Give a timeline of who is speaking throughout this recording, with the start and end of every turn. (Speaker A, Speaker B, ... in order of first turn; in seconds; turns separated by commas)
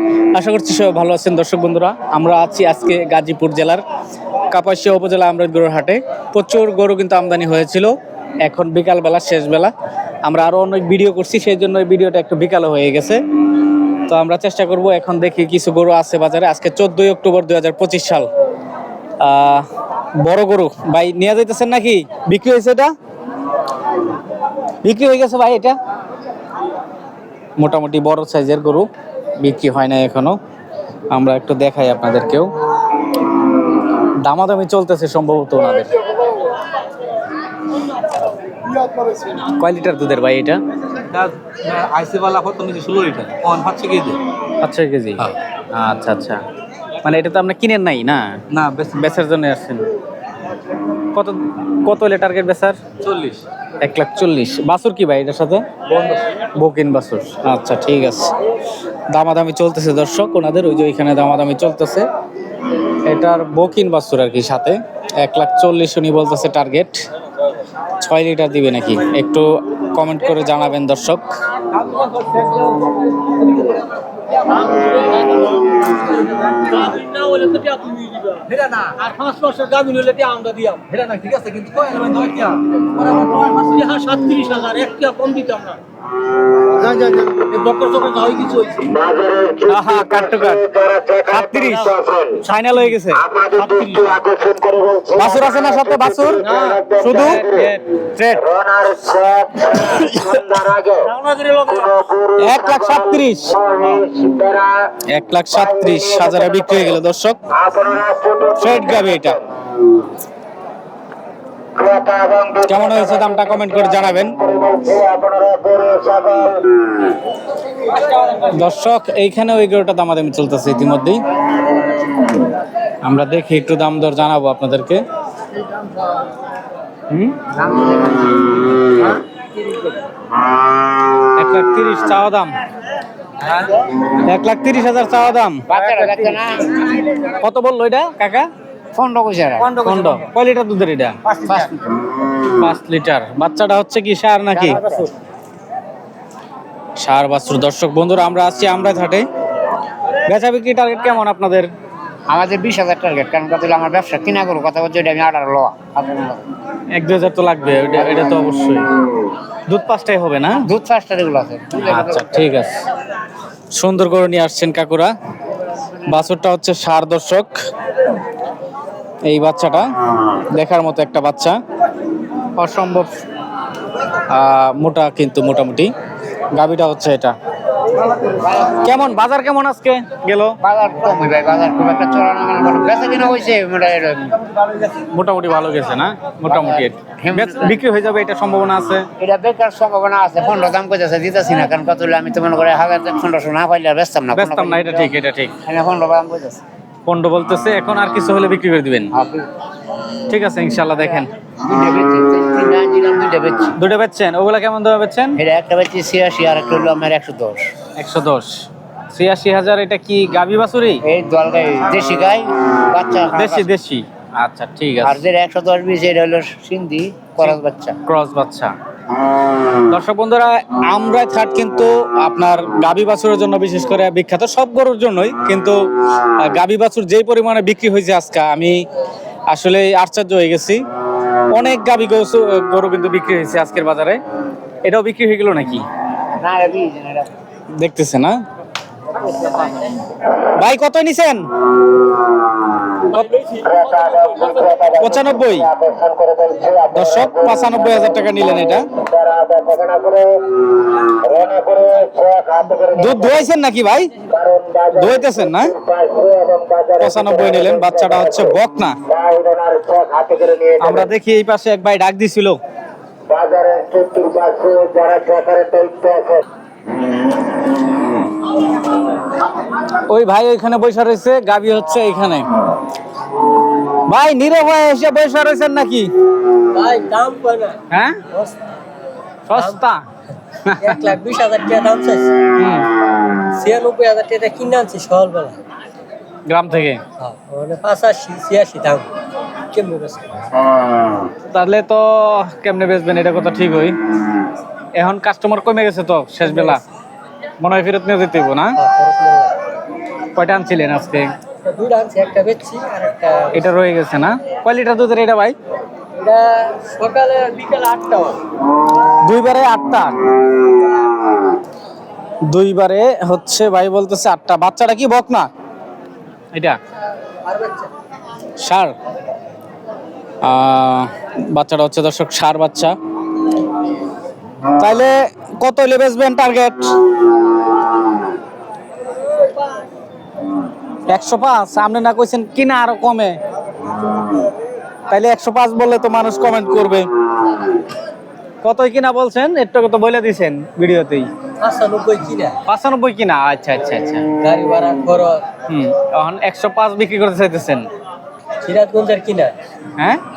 Speaker A: 0.3-3.8, Speaker A: 4.5-7.9, Speaker A: 8.4-9.7, Speaker A: 10.2-13.2, Speaker A: 14.1-18.3, Speaker A: 19.2-19.6, Speaker A: 20.2-22.9, Speaker A: 24.8-25.8, Speaker A: 27.6-28.9, Speaker A: 29.4-30.4, Speaker A: 31.1-32.5, Speaker A: 34.2-35.9, Speaker A: 39.4-40.6, Speaker B: 41.0-44.2, Speaker A: 44.6-46.4, Speaker A: 47.0-49.8, Speaker B: 48.5-49.1, Speaker A: 51.1-52.8, Speaker B: 53.0-53.4, Speaker A: 53.8-55.6, Speaker A: 56.5-58.3, Speaker A: 59.1-62.1, Speaker A: 63.0-67.0, Speaker A: 68.0-71.2, Speaker B: 71.7-73.6, Speaker B: 74.5-85.7, Speaker C: 74.6-80.7, Speaker C: 83.3-85.7, Speaker B: 86.8-88.9, Speaker C: 87.5-88.5, Speaker D: 88.9-92.4, Speaker A: 89.7-90.7, Speaker A: 91.3-93.2, Speaker D: 93.2-97.7, Speaker B: 93.7-94.1, Speaker A: 95.1-96.4, Speaker B: 96.4-96.8, Speaker A: 97.0-97.5, Speaker C: 97.5-97.7, Speaker A: 98.2-98.5, Speaker D: 98.4-101.1, Speaker A: 99.8-100.3, Speaker B: 101.2-101.9, Speaker D: 101.7-104.7, Speaker A: 102.4-103.6, Speaker A: 105.1-107.4, Speaker D: 105.6-106.7, Speaker D: 107.5-109.2, Speaker A: 108.6-109.4, Speaker D: 111.7-116.8, Speaker A: 112.6-114.3, Speaker A: 118.3-121.2, Speaker A: 123.0-125.0, Speaker A: 127.1-127.4, Speaker E: 127.5-129.2, Speaker A: 131.3-132.6, Speaker A: 134.2-135.7, Speaker E: 135.7-136.8, Speaker A: 137.1-138.5, Speaker E: 138.9-139.8, Speaker B: 139.7-140.0, Speaker A: 139.8-141.2, Speaker B: 141.3-141.6, Speaker E: 141.4-141.9, Speaker A: 142.6-144.8, Speaker E: 144.5-145.1, Speaker A: 147.0-149.2, Speaker A: 150.2-151.7, Speaker E: 152.3-156.4, Speaker A: 156.9-158.8, Speaker A: 159.7-160.6, Speaker E: 160.6-162.5, Speaker A: 161.8-162.8, Speaker A: 163.7-165.1, Speaker A: 166.1-167.6, Speaker A: 169.3-169.9, Speaker A: 170.5-171.6, Speaker A: 172.6-173.1, Speaker A: 174.3-175.9, Speaker A: 176.5-177.3, Speaker E: 178.3-178.8, Speaker A: 178.8-180.6, Speaker E: 180.6-184.4, Speaker A: 185.1-189.1, Speaker E: 186.5-187.8, Speaker E: 189.2-196.6, Speaker A: 194.3-195.5, Speaker A: 197.1-199.1, Speaker E: 199.1-199.4, Speaker A: 200.3-201.3, Speaker E: 201.6-203.7, Speaker A: 203.8-205.4, Speaker E: 205.4-207.6, Speaker A: 208.0-211.0, Speaker E: 211.0-213.7, Speaker A: 213.3-215.2, Speaker E: 215.0-217.9, Speaker A: 217.4-218.7, Speaker A: 219.9-225.8, Speaker A: 226.4-228.8, Speaker A: 229.5-230.8, Speaker A: 231.5-234.2, Speaker A: 234.8-235.8, Speaker E: 236.4-237.3, Speaker A: 237.8-238.4, Speaker A: 240.5-241.4, Speaker A: 243.1-243.5, Speaker D: 243.5-248.3, Speaker A: 244.9-245.7, Speaker A: 246.9-248.8, Speaker D: 248.9-250.4, Speaker D: 251.2-253.3, Speaker A: 252.9-254.1, Speaker D: 254.3-258.5, Speaker A: 254.9-255.7, Speaker A: 257.0-258.9, Speaker D: 259.1-261.0, Speaker A: 260.8-262.6, Speaker D: 263.3-266.4, Speaker A: 269.9-272.4, Speaker A: 274.1-276.1, Speaker C: 276.7-278.6, Speaker A: 277.9-278.2, Speaker A: 279.5-280.0, Speaker C: 279.5-279.8, Speaker A: 280.6-281.0, Speaker C: 280.8-282.4, Speaker A: 282.6-282.9, Speaker C: 283.5-285.6, Speaker A: 286.5-287.0, Speaker C: 287.2-289.1, Speaker C: 289.7-290.4, Speaker A: 291.5-293.9, Speaker A: 294.9-296.8, Speaker C: 296.4-296.8, Speaker A: 297.6-298.8, Speaker C: 298.7-299.5, Speaker A: 300.3-301.3, Speaker C: 301.6-303.7, Speaker A: 303.5-305.6, Speaker C: 306.1-308.4, Speaker A: 309.2-310.1, Speaker A: 312.5-315.5, Speaker C: 317.4-317.9, Speaker A: 318.6-318.9, Speaker A: 320.4-322.9, Speaker A: 324.8-326.9, Speaker A: 331.1-333.4, Speaker A: 335.1-337.1, Speaker A: 338.6-341.3, Speaker C: 341.6-342.6, Speaker A: 342.6-344.3, Speaker C: 344.4-345.4, Speaker A: 345.7-347.9, Speaker C: 348.6-349.5